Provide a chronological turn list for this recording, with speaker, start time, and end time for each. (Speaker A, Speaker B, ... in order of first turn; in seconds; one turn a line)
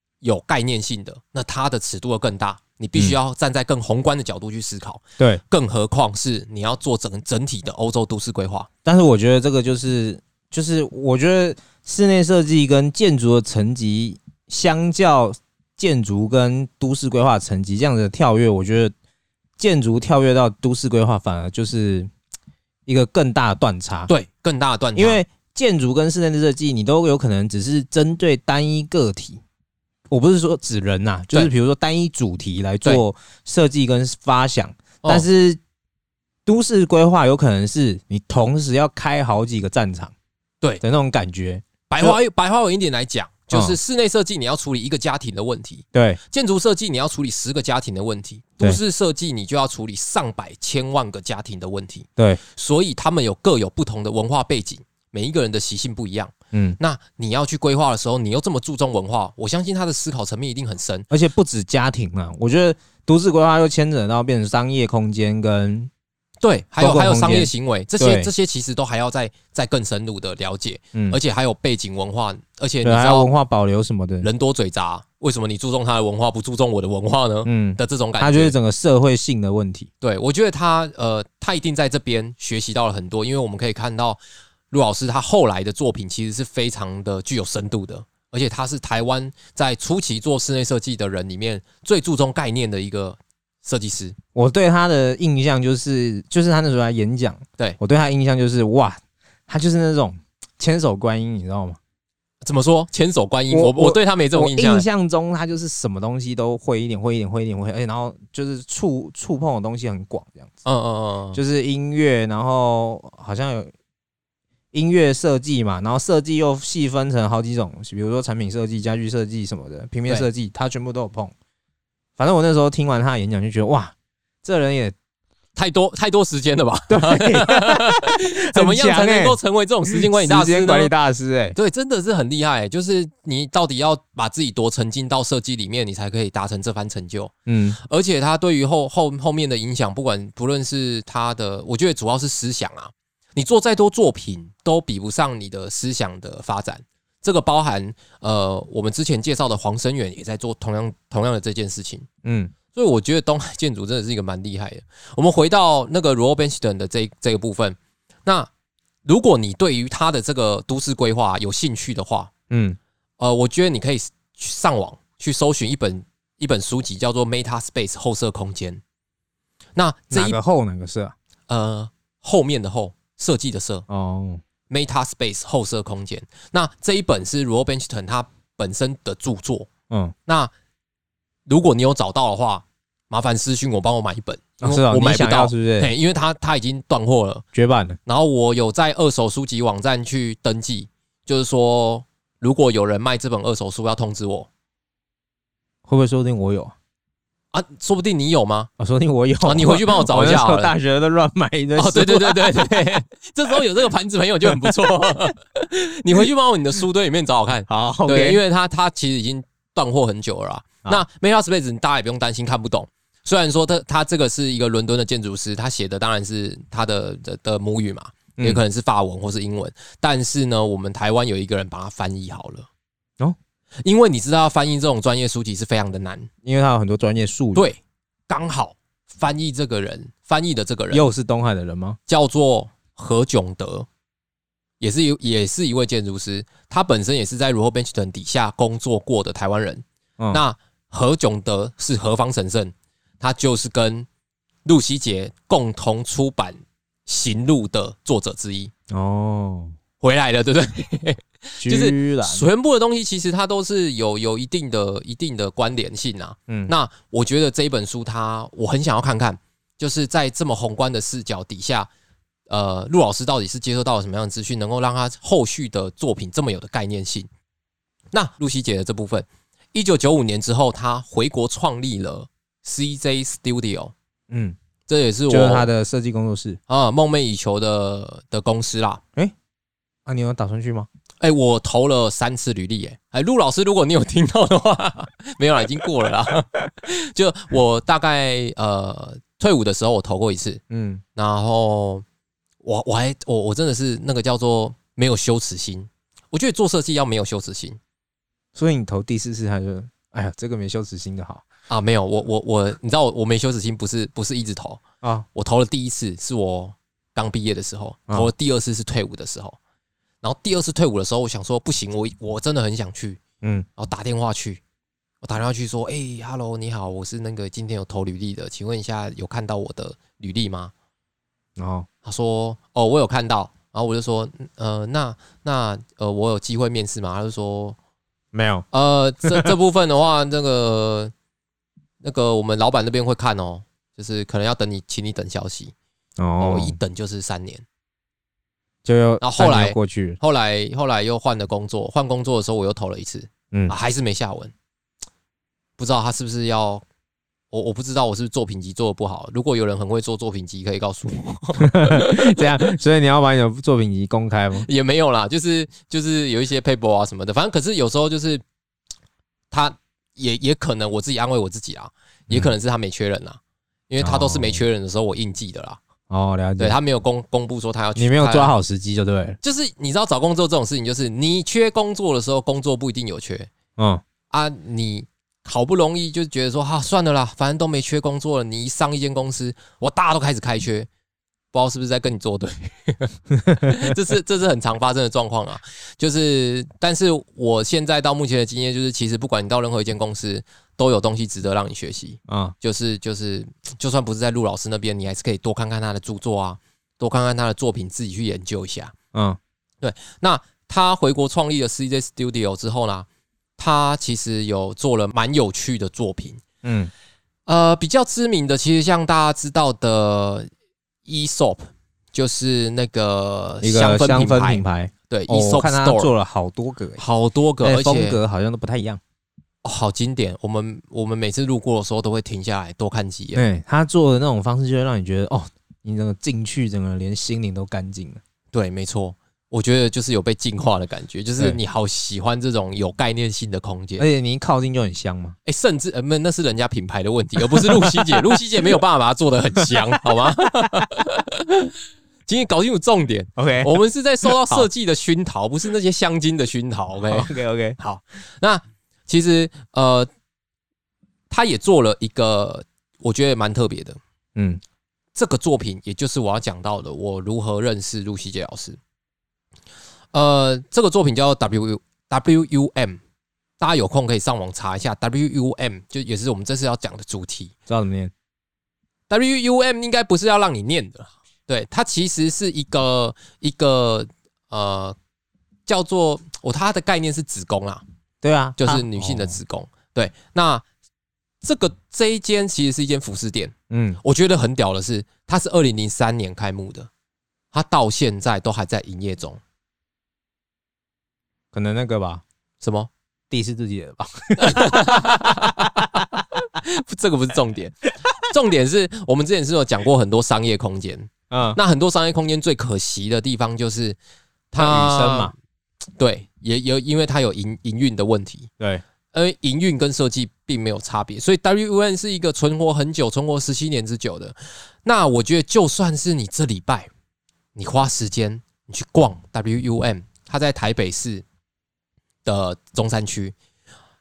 Speaker A: 0.2-8.7
Speaker B: 8.8-18.9
Speaker B: 19.6-22.1
Speaker B: 22.9-24.1
Speaker A: 24.1-25.2
Speaker B: 24.9-29.4
Speaker B: 30.1-35.6
Speaker B: 36.5-40.1
Speaker B: 40.8-42.2
Speaker A: 41.9-61.1
Speaker B: 43.5-43.8
Speaker B: 45.9-46.2
Speaker B: 56.5-56.8
Speaker B: 61.1-65.9
Speaker A: 66.4-73.3
Speaker B: 66.8-68.3
Speaker B: 71.0-71.2
Speaker B: 72.8-74.3
Speaker A: 74.2-78.6
Speaker B: 77.5-79.9
Speaker A: 80.0-94.2
Speaker B: 94.3-101.8
Speaker A: 102.4-104.9
Speaker B: 103.5-110.5
Speaker A: 110.7-111.4
Speaker B: 111.3-113.7
Speaker B: 114.7-121.3
Speaker B: 122.2-125.0
Speaker A: 125.5-130.9
Speaker B: 126.9-129.4
Speaker B: 129.9-131.6
Speaker A: 131.6-152.1
Speaker B: 137.5-137.8
Speaker B: 152.2-152.5
Speaker A: 152.7-158.5
Speaker A: 159.1-162.3
Speaker B: 162.5-162.8
Speaker A: 163.2-168.8
Speaker A: 169.8-170.4
Speaker B: 170.1-171.2
Speaker A: 171.5-173.8
Speaker B: 173.9-174.4
Speaker A: 174.7-179.7
Speaker A: 180.3-180.5
Speaker A: 181.5-187.4
Speaker B: 184.6-185.9
Speaker B: 187.5-188.0
Speaker A: 188.1-194.5
Speaker B: 195.9-196.8
Speaker A: 197.5-198.7
Speaker B: 198.8-202.8
Speaker A: 199.4-200.7
Speaker A: 201.8-222.7
Speaker B: 207.7-208.4
Speaker B: 218.4-218.6
Speaker A: 223.8-226.3
Speaker B: 226.4-227.7
Speaker A: 227.6-231.1
Speaker B: 230.9-232.0
Speaker A: 232.1-233.9
Speaker A: 234.8-244.1
Speaker A: 244.7-248.7
Speaker B: 248.9-249.8
Speaker A: 250.0-261.9
Speaker B: 251.6-252.4
Speaker B: 256.5-256.7
Speaker A: 262.5-267.3
Speaker A: 268.1-273.9
Speaker B: 274.3-274.6
Speaker A: 274.9-275.7
Speaker B: 275.3-276.6
Speaker A: 276.7-279.0
Speaker B: 280.1-280.9
Speaker A: 281.2-290.6
Speaker B: 290.7-291.0
Speaker A: 291.2-292.1
Speaker A: 292.6-297.8
Speaker B: 298.6-301.4
Speaker A: 301.7-304.8
Speaker A: 305.4-309.6
Speaker A: 310.2-313.2
Speaker A: 313.8-314.6
Speaker A: 315.2-320.7
Speaker B: 321.6-321.9
Speaker A: 322.0-327.8
Speaker B: 328.3-328.7
Speaker A: 328.7-331.1
Speaker B: 329.2-329.5
Speaker A: 332.0-335.7
Speaker B: 336.2-336.8
Speaker A: 336.4-337.6
Speaker B: 338.8-340.2
Speaker A: 339.2-344.5
Speaker A: 345.8-346.8
Speaker A: 347.5-352.7
Speaker B: 351.6-354.7
Speaker A: 354.6-358.4
Speaker A: 359.5-365.8
Speaker B: 364.0-364.6
Speaker B: 366.1-366.8
Speaker A: 366.6-368.5
Speaker B: 368.0-369.4
Speaker A: 369.4-373.5
Speaker B: 373.8-374.0
Speaker A: 374.3-380.9
Speaker A: 381.5-398.9
Speaker B: 383.5-383.7
Speaker B: 392.3-392.6
Speaker B: 399.1-399.4
Speaker A: 399.8-403.1
Speaker A: 403.6-406.4
Speaker B: 406.6-406.9
Speaker A: 407.5-410.5
Speaker A: 411.1-416.1
Speaker B: 413.6-417.0
Speaker A: 417.0-418.2
Speaker B: 417.6-419.0
Speaker A: 419.6-423.4
Speaker B: 423.4-428.2
Speaker A: 428.5-434.0
Speaker B: 434.0-435.4
Speaker A: 435.4-441.7
Speaker B: 437.4-438.8
Speaker B: 439.6-440.9
Speaker A: 442.3-450.1
Speaker B: 443.4-444.7
Speaker B: 447.0-447.8
Speaker A: 451.3-454.0
Speaker B: 454.4-454.6
Speaker A: 455.1-458.8
Speaker A: 460.1-463.0
Speaker A: 463.6-467.5
Speaker B: 467.7-468.1
Speaker A: 469.1-475.0
Speaker A: 475.7-477.8
Speaker B: 478.2-479.4
Speaker A: 478.6-480.6
Speaker A: 481.4-486.9
Speaker B: 483.7-484.0
Speaker A: 487.5-489.4
Speaker B: 491.5-492.2
Speaker A: 492.6-492.9
Speaker B: 493.3-496.2
Speaker A: 494.4-504.0
Speaker B: 501.3-501.6
Speaker A: 504.5-505.3
Speaker B: 504.6-505.3
Speaker A: 506.0-508.5
Speaker A: 509.1-516.9
Speaker A: 517.5-521.2
Speaker A: 522.2-523.4